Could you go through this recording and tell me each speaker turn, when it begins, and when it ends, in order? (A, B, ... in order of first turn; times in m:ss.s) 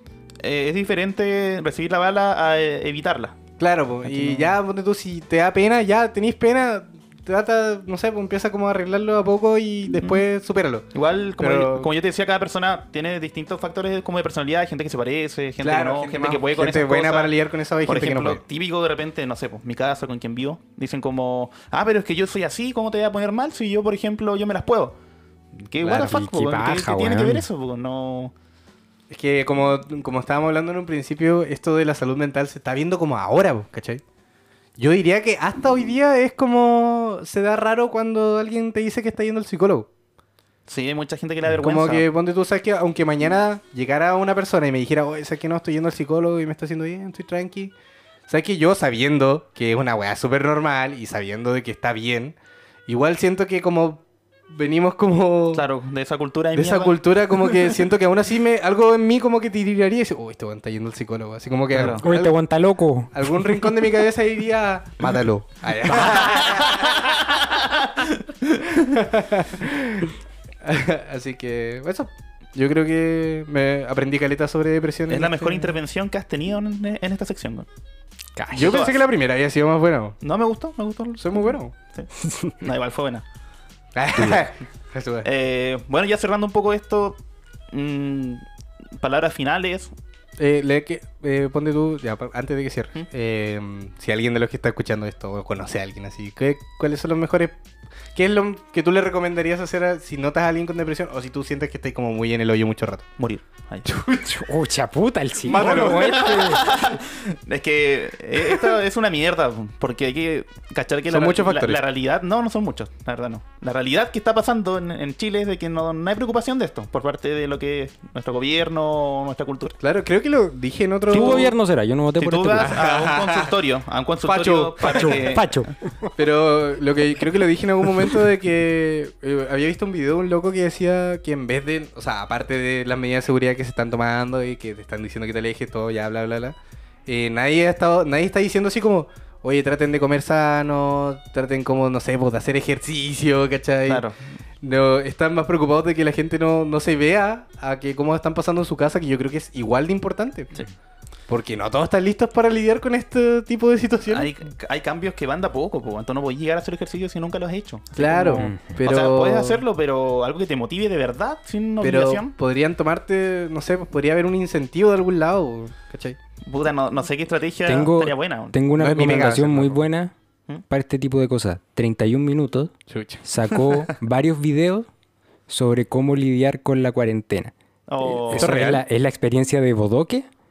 0:00.4-0:03.3 A
0:03.6-0:10.9 B
0:04.0-0:04.5 A
0:10.9-0:17.3 A
0:11.4-0:11.9 B
0:15.6-0:18.4 B
0:17.8-0:25.0 A
0:25.6-0:28.3 A
0:25.8-0:26.2 B
0:25.9-0:27.5 C
0:29.1-0:34.0 B
0:34.8-0:39.9 B
0:40.7-0:42.0 A
0:41.6-0:47.7 B
0:48.3-0:52.4 B
0:52.9-0:55.6 B
0:55.5-0:57.7 A
0:56.5-1:02.3 B
1:01.7-1:02.0 A
1:01.8-1:03.6 C
1:03.1-1:07.2 B
1:06.2-1:08.8 A
1:08.7-1:15.7 B
1:15.1-1:17.6 A
1:18.4-1:18.8 C
1:18.5-1:19.0 A
1:18.5-1:20.2 B
1:20.2-1:23.2 A
1:21.2-1:21.7 B
1:22.2-1:22.5 C
1:24.0-1:25.3 B
1:25.2-1:27.2 A
1:27.7-1:28.4 A
1:29.0-1:29.9 A
1:30.4-1:37.6 B
1:38.1-1:43.0 B
1:43.2-1:43.9 A
1:43.8-1:44.4 B
1:44.3-1:46.7 C
1:45.4-1:46.5 B
1:45.5-1:59.8 A
1:51.1-1:51.8 B
1:59.8-2:01.5 B
2:01.1-2:02.8 C
2:01.1-2:01.4 A
2:02.2-2:05.6 A
2:02.6-2:03.5 B
2:04.2-2:05.2 B
2:04.9-2:06.1 C
2:06.2-2:16.5 B
2:17.1-2:24.0 B
2:23.9-2:24.2 A
2:24.6-2:30.5 B
2:31.3-2:34.3 B
2:34.1-2:42.3 A
2:38.0-2:39.6 B
2:38.4-2:38.6 C
2:41.8-2:46.2 B
2:46.4-2:48.6 A
2:47.6-2:50.1 C
2:48.8-2:49.8 B
2:50.7-2:52.7 C
2:52.9-2:53.2 B
2:53.2-2:54.9 C
2:55.5-2:57.5 C
2:57.9-2:58.6 A
2:58.0-3:00.3 C
2:58.3-2:58.8 B